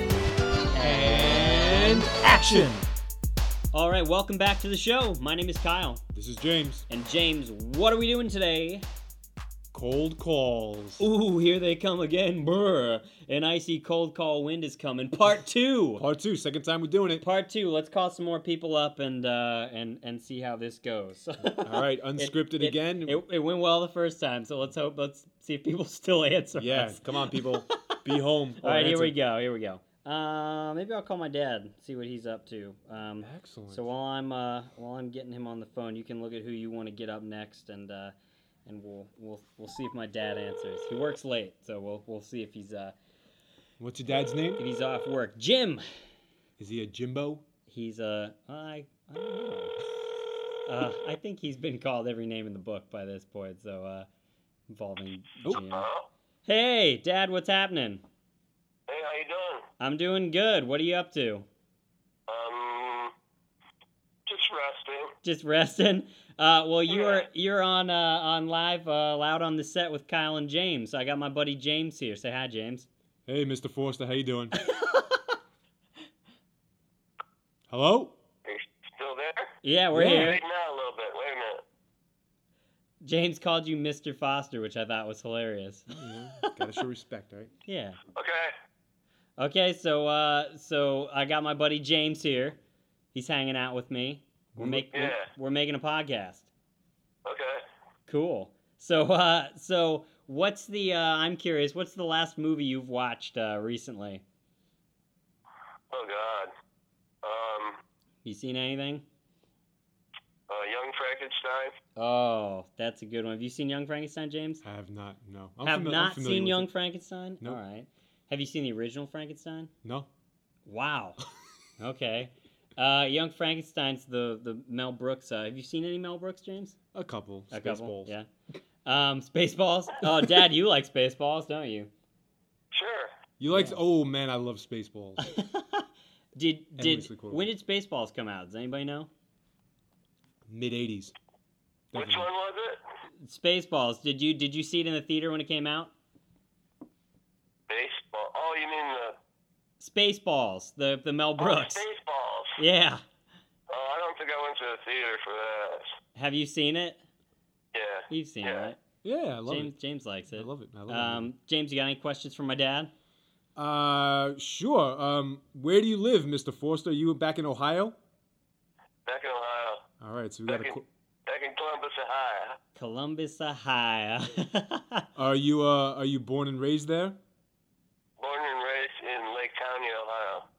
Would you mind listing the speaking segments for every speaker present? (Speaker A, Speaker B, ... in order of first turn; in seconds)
Speaker A: 0.7-2.9, 3.7-6.0, 6.9-8.9, 11.0-16.1, 17.2-28.0, 28.6-38.1, 38.7-43.0, 44.6-45.9, 47.7-49.8, 50.7-54.1, 54.7-55.9, 56.5-58.0, 59.8-61.5, 65.2-72.9, 74.7-75.2, 79.6-80.4, 83.0-85.9, 87.7-88.0, 89.4-92.6, 93.1-96.5, 98.1-104.2, 108.2-109.0, 112.0-114.6, 115.6-119.7, 120.7-121.2, 121.8-126.8, 127.5-128.3, 128.8-131.9, 133.5-133.8, 135.2-139.1, 143.2-145.9, 149.8-151.8, 152.6-153.0, 156.2-157.0, 158.1-158.8, 159.5-162.9, 172.8-175.1
Speaker B: 0.8-2.8, 6.1-6.9, 9.7-11.1, 16.0-17.2, 21.6-23.2, 26.6-29.2, 33.2-33.9, 43.8-44.6, 46.6-47.5, 73.3-74.5, 77.7-78.2, 79.9-80.4, 86.0-87.5, 94.5-94.8, 114.6-116.7, 126.9-128.1, 133.4-135.2, 136.8-137.5, 140.5-141.2, 141.9-142.3, 159.0-159.8, 160.3-161.3, 163.6-168.0, 170.0-170.9, 175.2-177.2
Speaker C: 55.5-56.1, 58.9-59.7, 62.3-63.1, 64.3-65.2, 66.9-67.3, 78.5-79.5, 80.1-81.6, 88.2-88.5, 94.9-95.3, 97.2-97.6, 105.9-106.5, 107.2-107.8, 110.5-111.7, 132.7-133.1, 141.9-142.8, 147.7-149.2, 151.4-152.6, 153.7-155.9, 157.7-158.7, 169.1-169.8, 170.5-172.6, 178.2-180.5